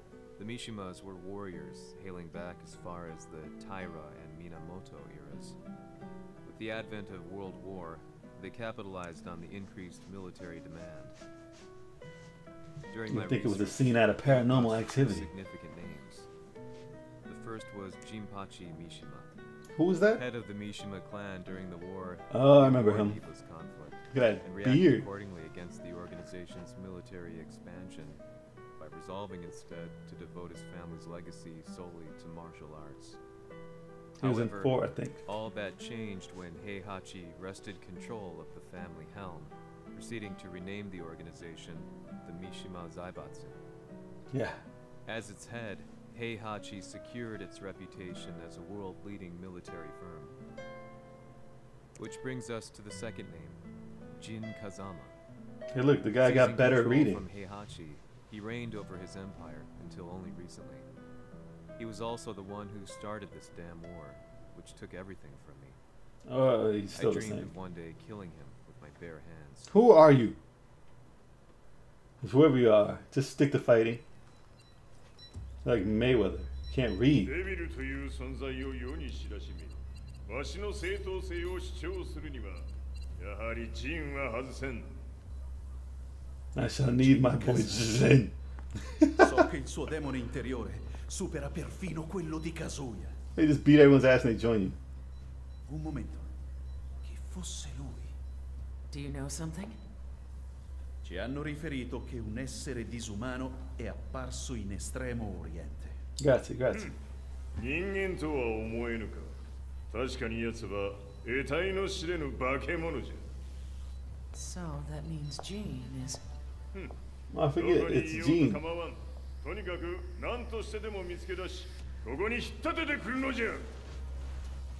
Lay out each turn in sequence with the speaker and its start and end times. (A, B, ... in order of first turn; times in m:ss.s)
0:00.4-0:05.6 A
0:06.4-0:11.1 A
0:12.9-0:16.3 A
0:13.1-0:15.3 B
0:17.2-0:19.3 A
0:19.7-0:20.2 B
0:20.1-0:28.2 A
0:22.3-0:23.2 B
0:24.1-0:25.0 B
0:28.8-0:33.2 A
0:34.2-0:35.2 B
0:34.2-0:43.6 A
0:44.3-0:44.6 B
0:45.0-0:50.3 A
0:52.0-0:53.6 A
0:54.2-0:55.1 A
0:55.7-0:57.2 B
0:56.2-1:00.9 A
1:01.8-1:05.8 A
1:06.3-1:07.5 B
1:06.9-1:09.7 A
1:09.7-1:10.4 B
1:12.2-1:14.0 B
1:15.6-1:17.3 B
1:17.2-1:24.9 C
1:26.5-1:29.4 B
1:27.1-1:27.8 D
1:29.2-1:33.2 D
1:33.4-1:34.8 B
1:35.6-1:36.3 D
1:37.0-1:38.1 D
1:38.9-1:39.8 E
1:41.0-1:46.0 D
1:46.2-1:46.9 B
1:47.6-1:49.3 C
1:49.9-1:53.2 C
1:54.3-1:56.2 E
1:57.3-1:58.6 B
1:57.6-2:03.7 C